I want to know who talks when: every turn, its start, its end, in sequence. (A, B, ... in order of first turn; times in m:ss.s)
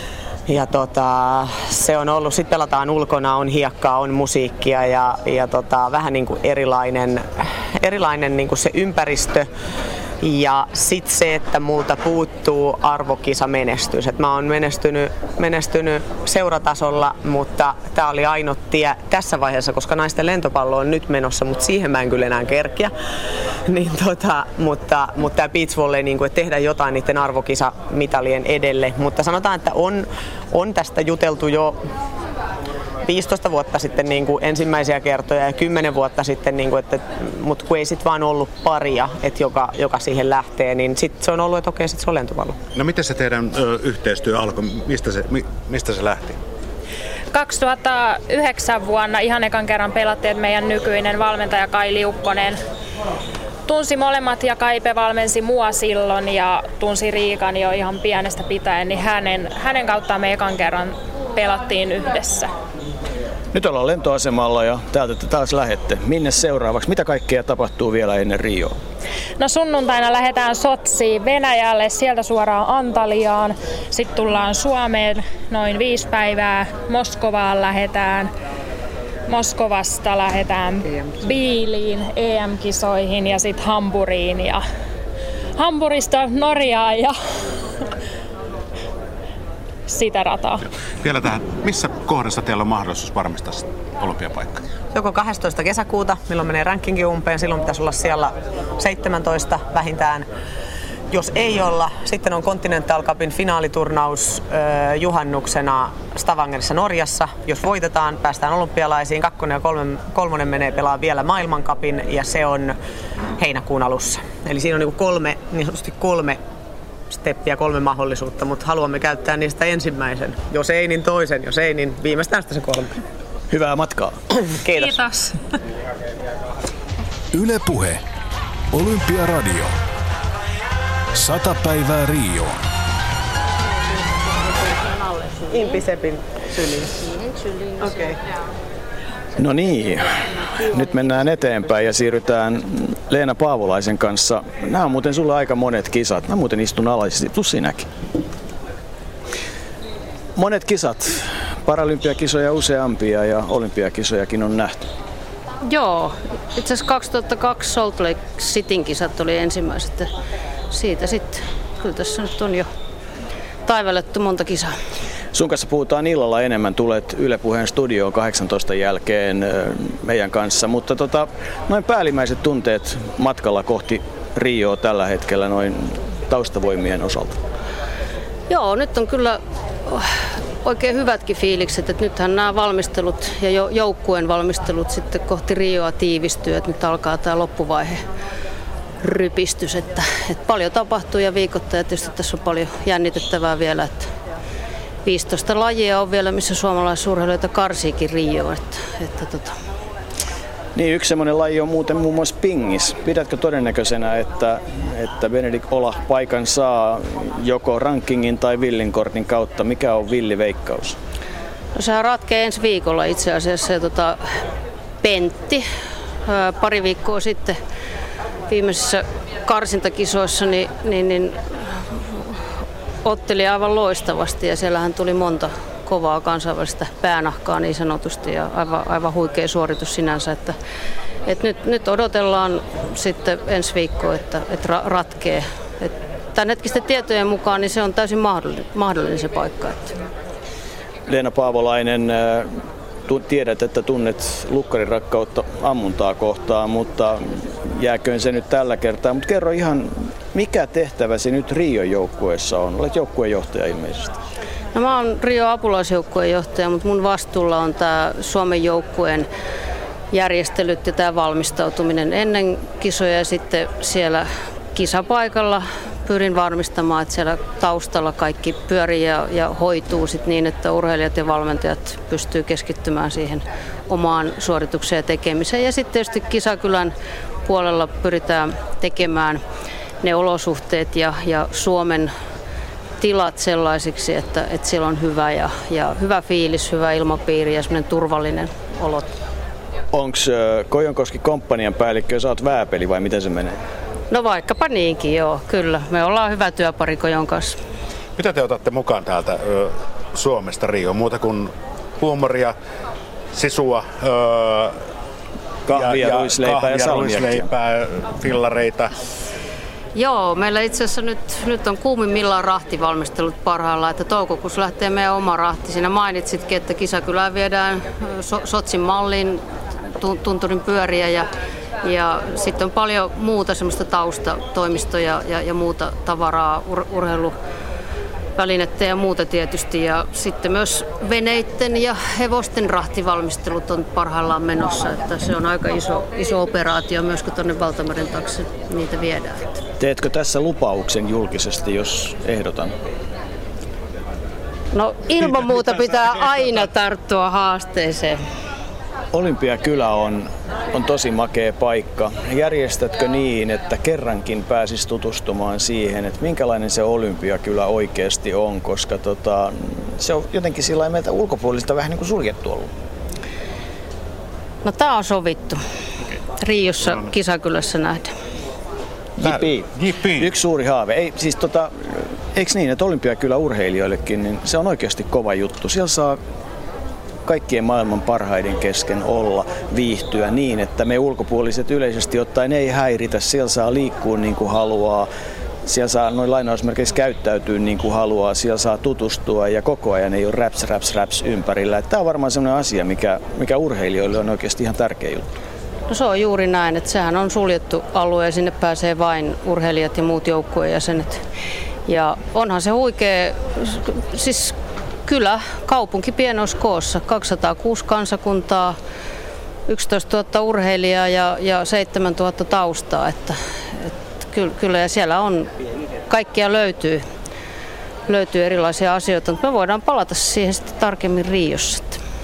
0:00.5-0:07.2 A
0:07.8-0:09.5 A
0:10.2-0:22.9 A
0:23.7-0:31.8 A
0:33.0-0:42.6 A
0:42.8-0:46.4 B
0:47.3-0:52.6 C
0:53.7-1:02.5 C
1:03.5-1:08.8 D
1:09.4-1:18.3 C
1:19.3-1:24.6 C
1:25.6-1:27.1 C
1:29.9-1:30.6 C
1:31.0-1:34.6 B
1:34.9-1:40.3 A
1:41.1-1:52.8 A
1:53.4-1:56.4 A
1:57.1-2:02.9 A
2:03.5-2:04.2 D
2:04.6-2:05.0 A
2:04.8-2:05.2 C
2:07.3-2:08.0 E
2:08.7-2:09.8 E
2:11.1-2:12.6 E
2:15.5-2:17.0 A
2:17.8-2:18.1 A
2:19.4-2:27.9 D
2:30.4-2:34.8 D
2:35.6-2:40.1 F
2:40.7-2:42.7 F
2:43.6-2:44.7 F
2:45.3-2:57.4 D
2:58.5-3:00.0 F
3:00.6-3:08.0 F
3:09.0-3:14.1 F
3:15.0-3:19.6 F
3:20.8-3:31.0 D
3:31.7-3:34.2 F
3:35.0-3:35.6 F
3:36.2-3:37.6 F
3:38.5-3:42.0 F
3:43.0-3:50.5 F
3:51.3-3:59.9 F
4:01.1-4:02.5 D
4:03.1-4:14.1 D
4:14.7-4:19.3 F
4:20.1-4:36.9 F
4:37.4-4:39.4 F
4:40.0-4:42.1 F
4:43.0-4:49.1 F
4:49.9-4:53.6 D
4:54.1-4:57.6 F
4:58.2-5:02.5 B
5:03.3-5:04.7 B
5:05.7-5:07.4 D
5:05.7-5:08.9 B
5:10.0-5:19.4 F
5:20.0-5:21.3 F
5:21.8-5:27.3 F
5:28.4-5:39.6 F
5:39.8-5:42.7 D
5:44.7-5:48.2 F
5:49.1-6:02.7 D
6:04.6-6:05.6 F
6:06.4-6:08.1 F
6:06.8-6:07.1 B
6:09.2-6:10.3 B
6:09.2-6:09.6 D
6:10.2-6:16.2 D
6:17.3-6:25.1 D
6:25.6-6:35.3 D
6:35.9-6:41.2 F
6:41.9-6:48.8 F
6:49.7-6:55.5 F
6:56.1-6:57.0 F
6:58.1-7:02.0 F